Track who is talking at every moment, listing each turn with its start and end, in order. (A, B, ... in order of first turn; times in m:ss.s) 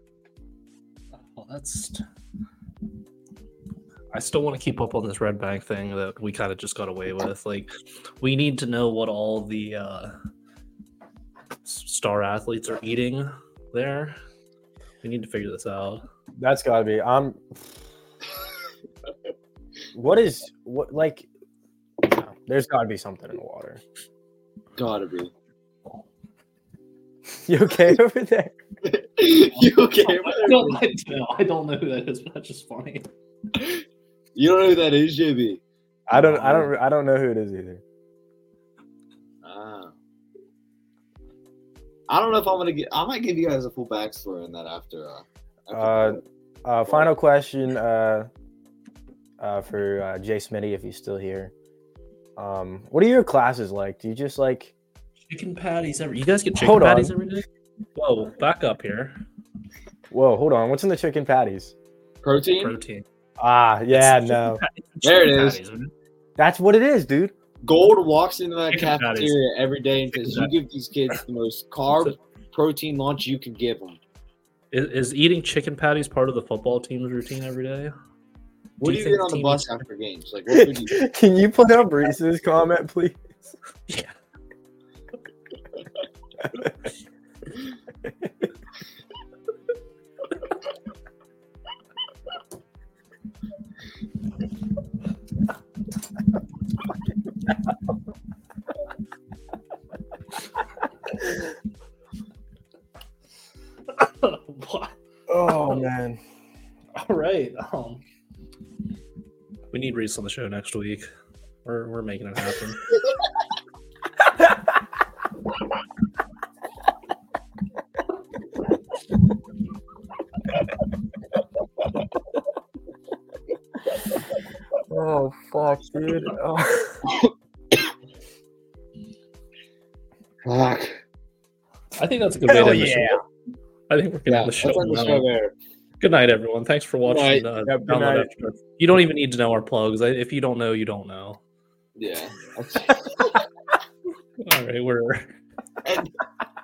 0:01.2-0:02.0 A
0:04.1-0:10.1 A
0:11.6-0:14.2 A
0:15.0-0:16.0 A
0:16.4-0:17.4 B
0:19.9-0:21.3 B
0:22.0-0:23.8 B
0:24.8-0:25.3 C
0:27.4-0:28.5 B
0:28.8-0:30.8 C
0:29.5-0:33.1 A
0:34.3-0:35.6 C
0:36.1-0:37.8 B
0:36.1-0:36.7 A
0:39.4-0:39.9 C
0:42.1-0:46.2 C
0:45.7-0:48.3 B
0:49.4-0:51.5 B
0:52.4-0:54.7 B
0:55.3-0:59.2 A
0:56.6-0:57.1 B
1:00.1-1:01.7 B
1:02.2-1:02.8 C
1:02.6-1:03.0 A
1:03.4-1:04.6 B
1:03.9-1:05.9 A
1:05.0-1:05.6 C
1:06.4-1:07.3 B
1:07.6-1:14.0 C
1:08.7-1:09.4 A
1:10.2-1:10.5 A
1:14.7-1:17.9 A
1:18.8-1:21.0 C
1:18.8-1:19.8 A
1:20.5-1:23.5 B
1:23.9-1:24.1 A
1:43.9-1:44.9 A
1:45.3-1:46.2 B
1:45.5-1:45.8 A
1:46.9-1:48.0 A
1:49.7-1:51.0 A
1:51.6-1:52.9 A
2:04.9-2:07.0 B
2:07.0-2:07.3 C
2:10.4-2:11.0 C
2:12.0-2:13.2 A
2:12.4-2:13.2 B
2:13.9-2:15.2 A
2:14.3-2:15.5 C
2:16.0-2:21.4 A
2:17.0-2:17.5 C
2:17.6-2:18.3 B
2:22.0-2:23.4 C
2:24.4-2:25.3 A
2:25.8-2:26.1 C